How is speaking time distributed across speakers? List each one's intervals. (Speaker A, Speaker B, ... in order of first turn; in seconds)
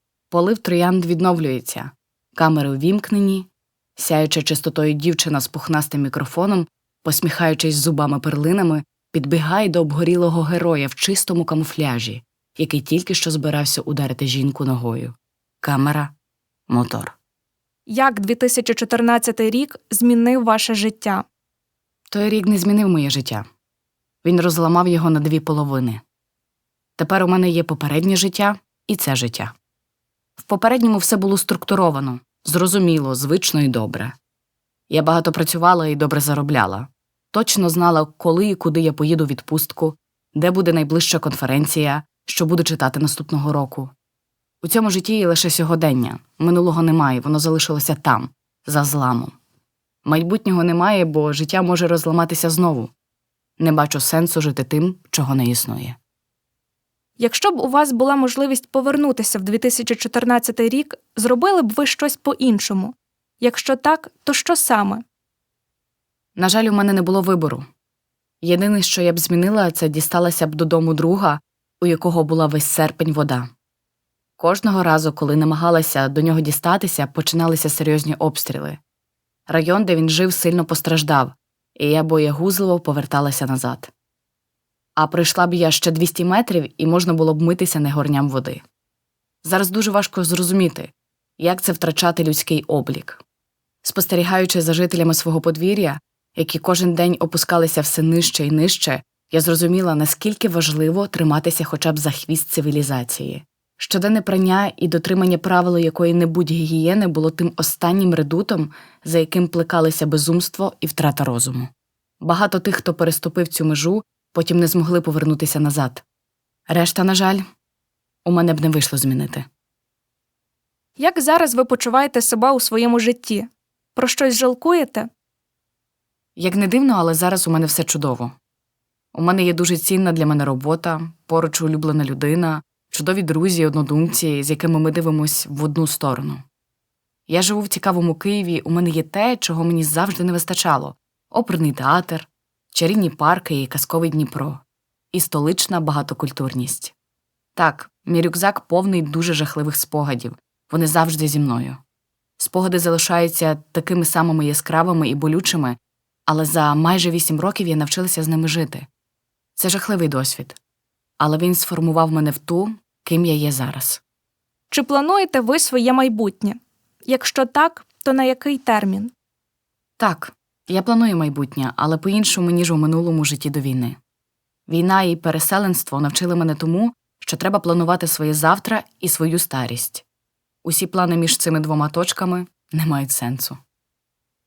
Speaker A: 0.3-16.1, 16.7-17.2, 22.1-23.4, 24.2-26.0, 27.0-29.5, 30.4-34.1, 34.9-43.9, 44.6-49.4, 50.0-52.9, 53.6-56.0, 66.4-67.7, 68.4-73.5, 74.4-78.8, 79.5-83.9, 85.0-88.6, 89.4-93.2, 93.8-116.0, 116.7-117.4, 118.2-119.5, 126.4-128.3, 129.1-136.4, 137.3-144.6, 145.1-146.9, 147.6-151.8, 152.4-158.9, 159.6-160.6, 161.2-164.0, 170.0-174.0, 174.7-180.0, 180.6-183.6
Speaker B: 17.9-21.2, 57.2-65.0, 121.0-125.1, 164.7-169.1